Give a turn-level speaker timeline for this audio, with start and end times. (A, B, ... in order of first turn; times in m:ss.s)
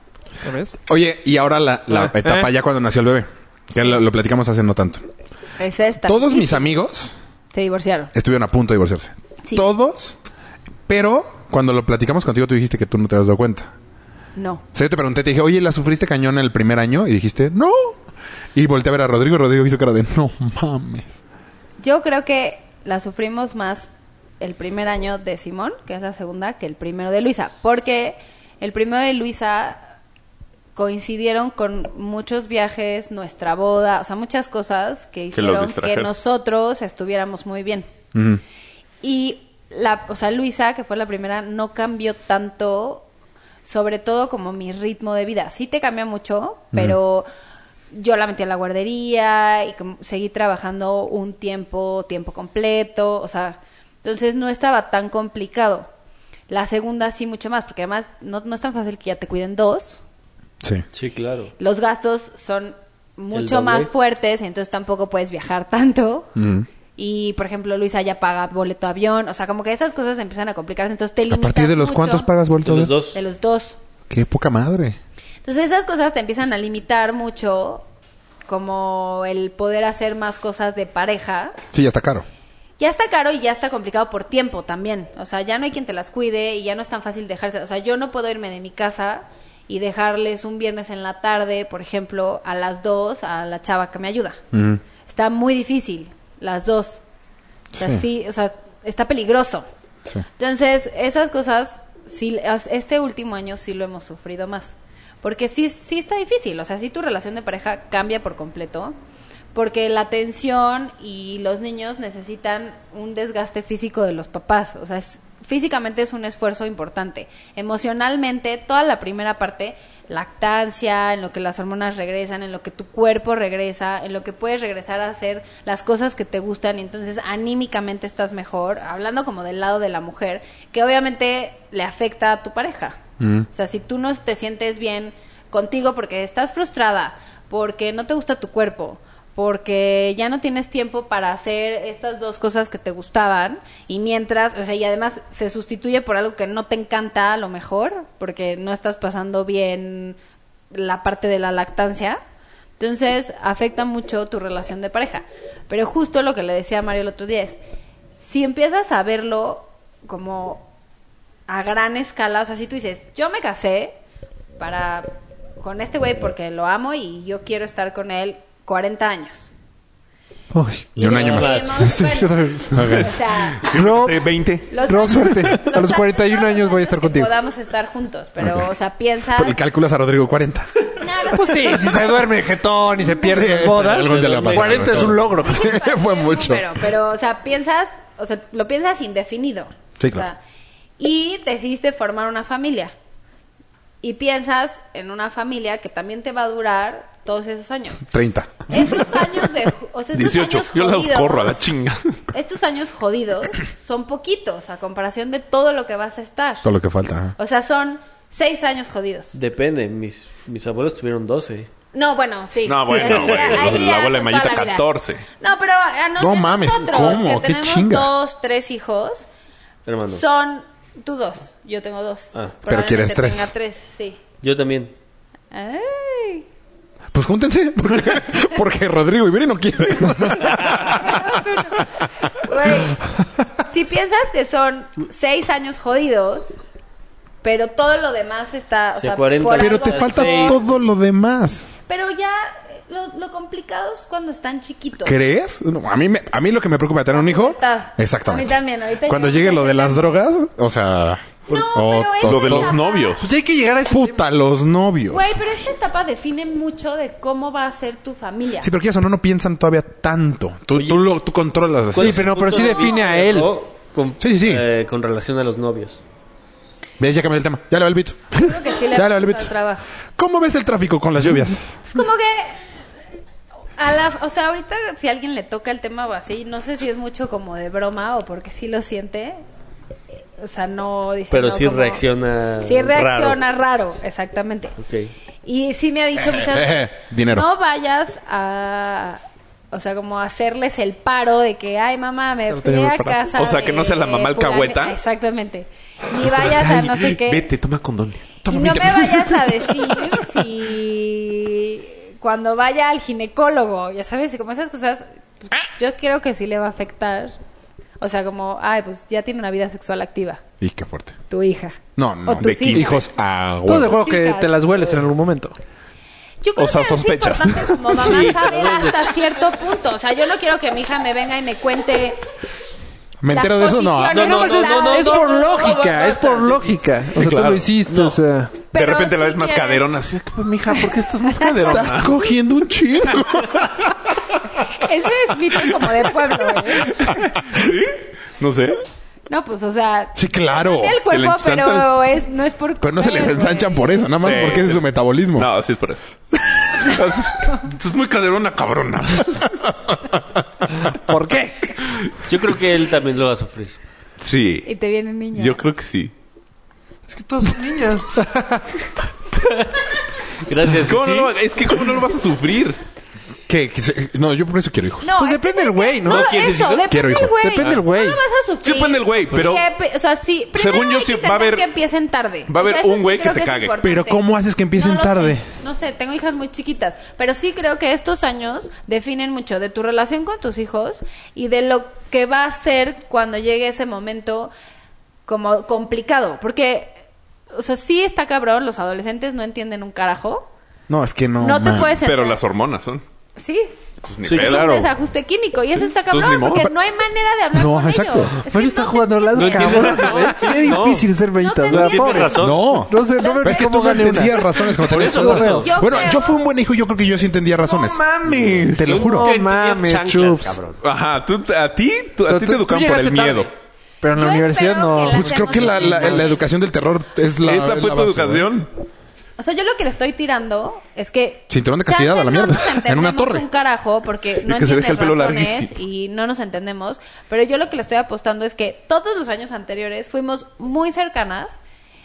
0:00.4-0:00.8 A
0:00.9-0:05.0 B
0:01.9-0:02.5 A
0:05.6-0:06.7 C
0:06.0-0:07.1 B
0:07.5-0:08.1 C
0:08.1-0:10.2 B
0:10.9-0:13.7 B
0:14.4-0:14.6 C
0:14.7-0:18.0 B
0:18.5-0:21.1 B
0:21.8-0:23.9 C
0:24.4-0:29.9 C
0:30.7-0:37.9 C
0:35.3-0:36.1 D
0:38.1-0:38.4 B
0:39.0-0:43.0 C
0:43.6-0:47.3 C
0:47.9-0:55.9 C
0:56.5-1:00.0 C
1:00.9-1:01.5 E
1:01.6-1:06.3 C
1:03.3-1:03.9 E
1:06.4-1:06.7 B
1:07.0-1:12.3 C
1:11.3-1:13.0 B
1:12.6-1:13.2 E
1:13.1-1:13.8 C
1:14.1-1:15.0 B
1:15.4-1:17.8 C
1:18.5-1:21.6 C
1:21.7-1:22.2 B
1:22.8-1:34.4 C
1:34.5-1:34.8 B
1:35.0-1:37.0 C
1:37.7-1:38.0 B
1:37.8-1:39.6 C
1:40.4-1:48.9 C
1:49.5-2:13.0 C
2:13.2-2:13.5 B
2:13.5-2:30.2 C
2:30.7-2:32.2 C
2:32.8-2:37.6 C
2:38.2-2:40.7 C
2:41.5-2:43.9 C
2:44.6-2:49.5 C
2:50.5-2:52.9 A
2:51.0-2:53.6 C
2:51.0-2:51.9 B
2:51.1-2:51.9 E
2:52.7-2:53.2 B
2:52.8-2:54.7 D
2:53.6-2:54.2 A
2:54.7-2:59.6 C
2:54.8-2:57.3 A
2:58.4-2:58.7 B
2:59.3-3:00.7 B
3:01.0-3:02.1 C
3:01.3-3:05.6 A
3:03.0-3:03.4 C
3:03.2-3:06.9 B
3:03.6-3:05.3 E
3:05.4-3:10.4 C
3:10.0-3:10.3 B
3:11.0-3:12.9 C
3:14.0-3:18.0 C
3:18.1-3:19.0 B
3:18.7-3:21.6 C
3:20.1-3:22.2 D
3:22.3-3:26.6 C
3:26.6-3:27.4 B
3:27.4-3:29.3 C
3:29.3-3:31.7 E
3:31.9-3:34.8 C
3:32.6-3:35.2 D
3:35.4-3:39.2 C
3:36.2-3:38.1 B
3:39.8-3:40.2 E
3:40.1-3:44.2 C
3:42.6-3:43.5 B
3:44.4-3:44.9 E
3:45.5-3:46.4 C
3:47.1-3:51.3 B
3:50.6-3:53.0 C
3:53.6-3:56.5 C
3:57.4-4:00.6 C
3:59.0-4:00.6 E
3:59.6-4:01.7 B
4:01.9-4:05.2 C
4:05.0-4:12.8 B
4:07.1-4:10.1 C
4:11.5-4:13.2 C
4:12.2-4:13.3 D
4:13.2-4:14.2 A
4:13.9-4:15.4 B
4:15.1-4:18.7 C
4:18.6-4:22.2 B
4:21.9-4:26.0 E
4:22.0-4:23.5 A
4:24.2-4:24.6 B
4:27.0-4:29.5 B
4:28.3-4:29.8 C
4:30.2-4:31.6 B
4:31.8-4:32.6 C
4:33.8-4:39.4 C
4:40.4-4:42.0 C
4:41.3-4:43.4 E
4:42.6-4:44.8 C
4:44.8-4:45.1 E
4:45.4-4:49.2 C
4:46.2-4:47.5 B
4:49.7-4:57.4 C
4:52.5-4:53.2 B
4:53.3-4:55.0 D
4:56.3-4:58.4 D
4:56.4-4:56.7 B
4:58.4-5:00.4 B
4:58.4-5:07.4 C
5:08.0-5:10.4 C
5:10.6-5:11.2 B
5:11.3-5:13.0 C
5:12.0-5:14.0 B
5:12.4-5:13.0 D
5:13.6-5:15.6 A
5:13.8-5:14.6 C
5:16.4-5:22.2 C
5:16.6-5:18.4 D
5:18.0-5:19.1 E
5:23.2-5:24.3 B
5:23.3-5:25.8 C
5:24.1-5:26.8 E
5:24.2-5:28.6 A
5:27.1-5:27.7 D
5:28.7-5:29.8 C
5:28.7-5:32.2 D
5:31.2-5:32.3 C
5:31.6-5:34.0 B
5:33.1-5:33.5 D
5:34.8-5:37.2 C
5:36.5-5:38.8 D
5:39.3-5:44.0 C
5:40.1-5:41.0 B
5:41.0-5:41.9 D
5:42.8-5:45.5 B
5:44.2-5:46.0 D
5:46.7-5:49.7 D
5:50.9-5:51.7 A
5:52.2-5:53.8 E
5:54.2-5:54.7 D
5:54.6-5:55.6 C
5:55.3-5:56.1 D
5:57.1-5:58.8 A
6:00.4-6:01.3 E
6:00.8-6:02.8 D
6:03.5-6:05.1 B
6:05.0-6:14.2 C
6:05.1-6:06.8 A
6:06.0-6:06.5 D
6:06.9-6:07.4 B
6:07.4-6:08.2 A
6:08.6-6:09.6 D
6:10.5-6:11.7 D
6:12.5-6:13.8 D
6:13.8-6:15.4 B
6:14.8-6:24.5 C
6:25.2-6:26.9 C
6:27.5-6:30.5 C
6:30.9-6:32.0 B
6:31.4-6:32.4 C
6:32.0-6:33.0 D
6:33.4-6:40.3 C
6:34.0-6:34.9 D
6:35.7-6:36.7 D
6:37.5-6:38.3 B
6:38.4-6:45.8 A
6:39.4-6:40.3 D
6:39.4-6:41.1 E
6:41.4-6:42.4 C
6:41.6-6:42.8 E
6:42.4-6:48.0 B
6:43.0-6:44.2 C
6:44.8-6:45.7 E
6:45.0-6:45.6 D
6:45.6-6:46.4 C
6:47.7-6:48.9 D
6:48.2-6:50.8 E
6:48.7-6:49.3 B
6:49.0-6:50.6 A
6:50.8-6:53.5 D
6:52.3-6:56.3 A
6:54.1-6:56.5 C
6:55.0-6:58.5 B
6:57.4-6:58.7 D
6:59.4-7:11.6 C
7:01.5-7:03.4 B
7:04.4-7:05.8 D